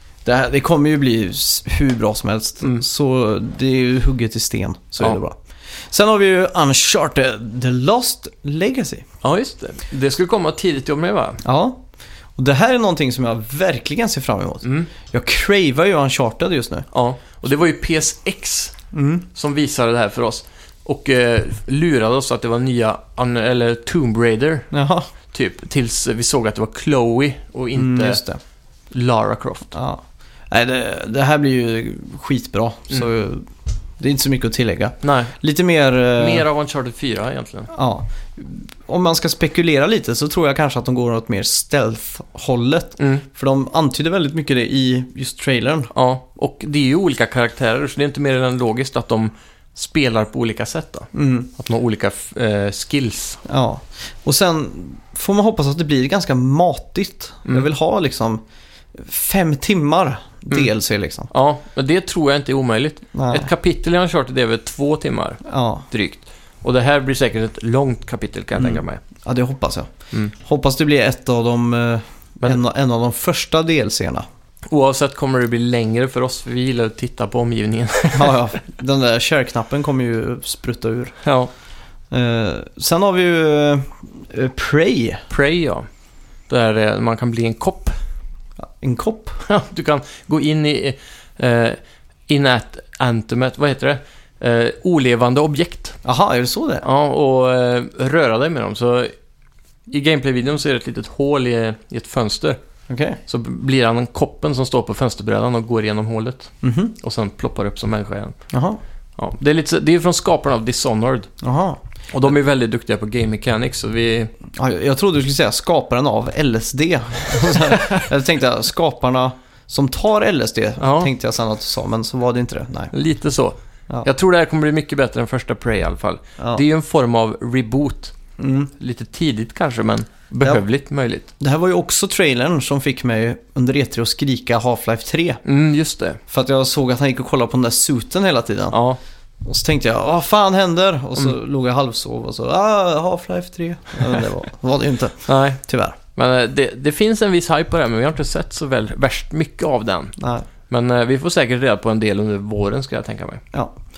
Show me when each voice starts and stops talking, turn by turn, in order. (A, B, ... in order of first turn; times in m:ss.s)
0:00.2-0:09.0 A
0:09.2-0:11.4 B
0:11.4-0:11.8 A
0:12.4-0:16.8 A
0:14.6-0:14.9 B
0:16.9-0:18.8 B
0:18.9-0:19.2 A
0:19.3-0:24.7 B
0:24.7-0:25.1 A
0:25.3-0:28.2 B
0:27.8-0:28.4 A
0:28.9-0:29.7 B
0:29.7-0:33.5 A
0:34.0-0:36.4 A
0:35.0-0:35.3 B
0:36.2-0:37.7 B
0:37.7-0:45.9 A
0:43.0-0:43.2 B
0:45.9-0:53.4 B
0:51.1-0:51.5 A
0:53.4-0:58.4 A
0:58.9-1:01.3 A
1:01.3-1:09.0 B
1:03.1-1:03.5 A
1:05.4-1:05.8 A
1:08.6-1:14.2 A
1:14.7-1:18.4 B
1:18.1-1:21.2 A
1:21.2-1:21.5 B
1:22.1-1:25.2 A
1:25.3-1:25.9 B
1:26.5-1:28.0 B
1:28.6-1:29.4 A
1:29.4-1:36.0 B
1:36.0-1:36.8 A
1:36.8-1:39.1 B
1:39.9-1:42.6 B
1:42.9-1:43.2 A
1:43.3-1:48.4 B
1:46.6-1:46.9 A
1:48.5-1:48.8 A
1:49.2-1:51.3 B
1:51.4-1:51.8 A
1:52.1-1:54.3 B
1:54.5-2:02.9 A
1:57.7-1:58.0 B
2:00.8-2:01.1 B
2:02.9-2:08.1 B
2:06.4-2:06.6 A
2:08.4-2:08.7 A
2:08.8-2:11.3 B
2:11.4-2:15.4 A
2:15.4-2:16.2 B
2:16.3-2:18.8 A
2:18.7-2:19.0 B
2:19.4-2:26.0 A
2:25.2-2:25.6 B
2:26.1-2:30.1 B
2:30.2-2:30.4 A
2:30.7-2:33.4 B